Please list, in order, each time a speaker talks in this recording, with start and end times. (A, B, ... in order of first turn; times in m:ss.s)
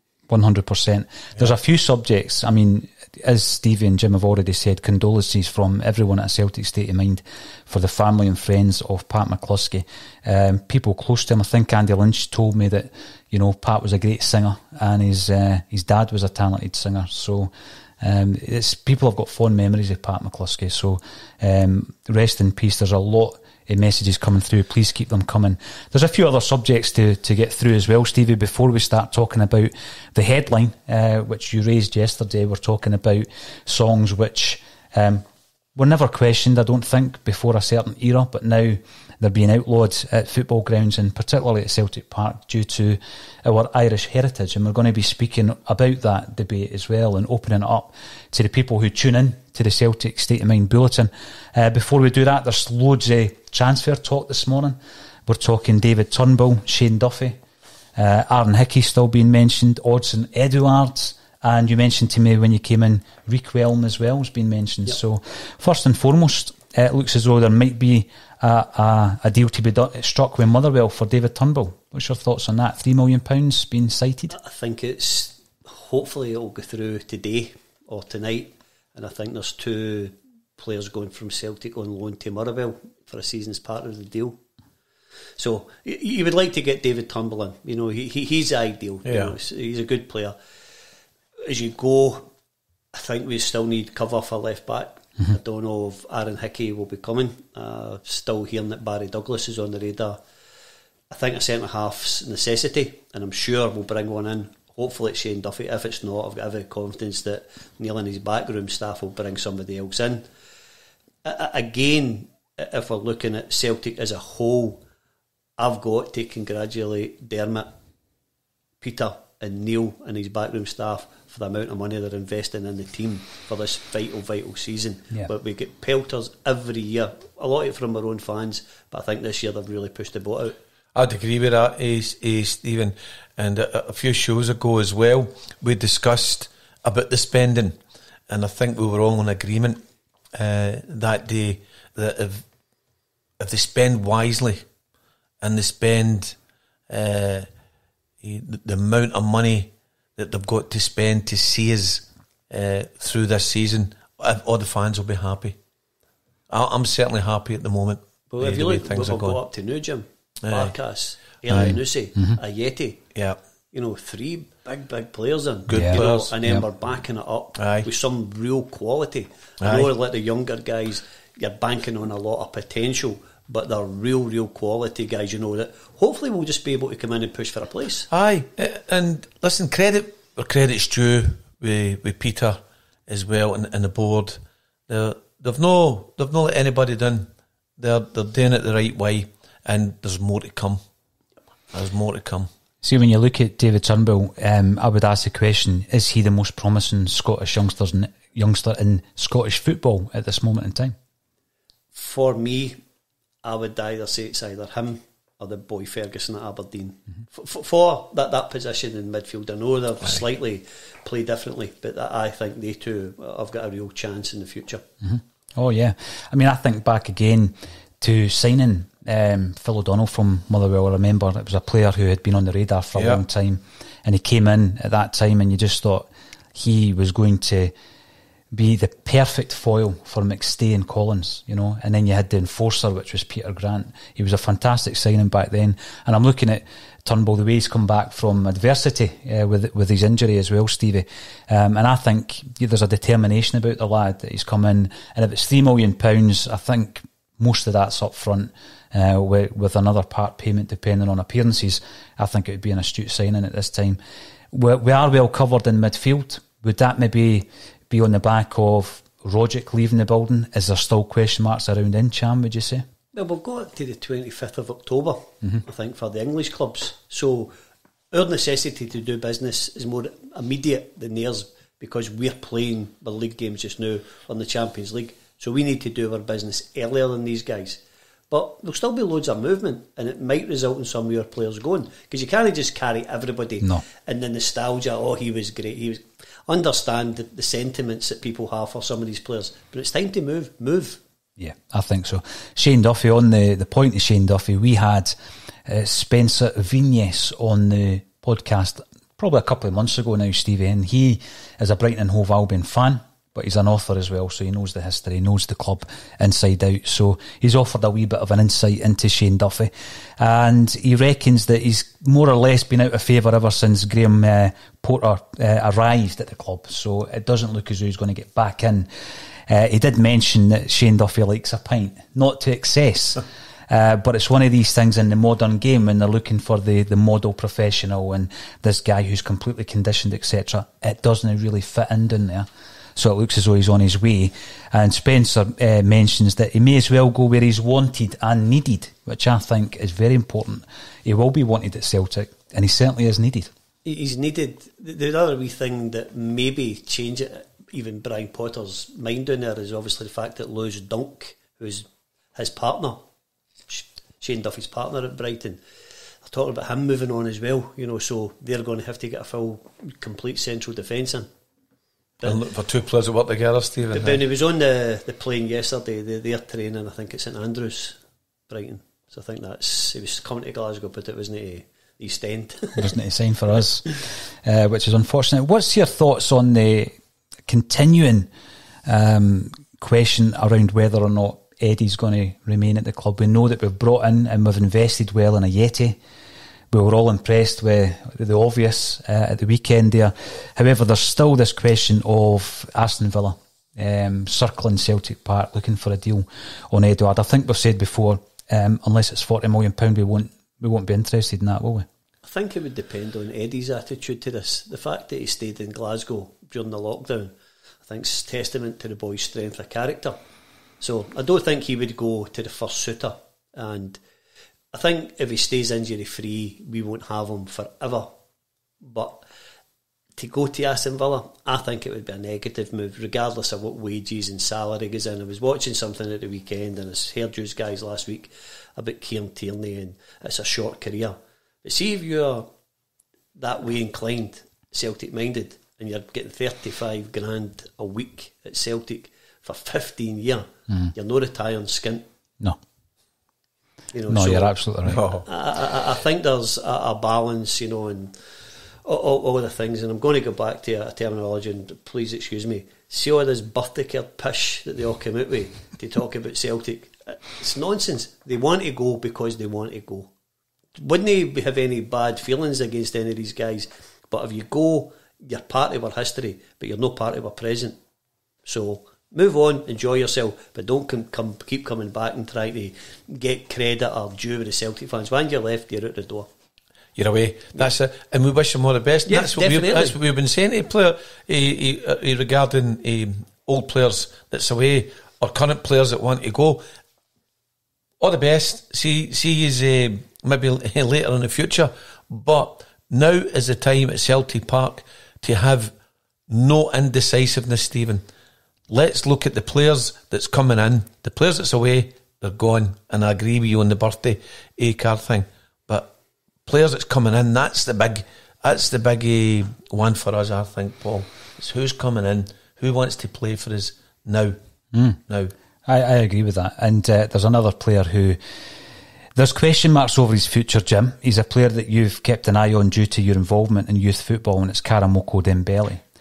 0:00.3-0:57.4 A
0:58.0-1:14.3 A
1:14.3-1:24.4 B
1:25.4-1:30.4 B
1:29.0-1:29.3 C
1:31.4-1:32.3 B
1:32.9-1:40.2 B
1:41.1-1:50.2 B
1:51.2-1:54.8 B
1:55.6-1:57.7 B
1:58.8-2:10.6 B
2:10.9-2:17.8 C
2:18.3-2:19.8 C
2:20.3-2:22.4 C
2:23.4-2:24.6 C
2:25.4-2:26.4 C
2:26.9-2:27.5 C
2:28.2-2:35.6 C
2:36.5-2:39.4 C
2:38.3-2:43.0 B
2:40.4-2:40.7 C
2:41.5-2:42.4 A
2:43.7-2:58.1 B
2:45.7-2:46.3 C
2:45.7-2:46.6 A
2:47.6-2:47.9 C
2:49.6-2:49.9 C
2:58.1-3:10.8 C
3:11.7-3:12.5 C
3:12.8-3:21.0 A
3:21.9-3:22.8 B
3:23.4-3:34.8 B
3:35.0-3:47.7 A
3:42.9-3:43.2 C
3:48.5-4:14.0 A
4:14.5-4:22.8 A
4:23.1-4:27.5 B
4:28.1-4:51.0 B
4:51.4-5:18.9 A
5:19.5-5:43.5 A
5:43.8-5:53.0 B
5:53.7-5:55.6 B
5:56.2-6:01.3 B
6:02.2-6:04.2 C
6:03.9-6:12.8 B
6:12.8-6:16.9 A
6:17.4-6:18.3 A
6:18.8-6:26.0 A
6:26.7-6:41.9 A
6:42.2-6:50.2 B
6:50.8-6:54.0 B
6:54.7-6:58.1 B
6:58.8-6:59.2 B
7:00.2-7:12.5 B
7:13.4-7:22.0 B
7:23.9-7:28.1 B
7:24.1-7:25.0 A
7:24.9-7:25.2 C
7:28.8-7:40.1 B
7:40.8-7:47.8 B
7:48.4-7:56.3 B
7:57.0-8:06.6 C
7:59.1-8:00.0 B
8:08.0-8:15.7 C
8:16.3-8:18.0 C
8:18.7-8:25.9 C
8:26.4-8:34.4 C
8:34.7-8:35.0 A
8:35.1-8:35.3 C
8:35.6-8:38.2 A
8:39.1-8:45.8 A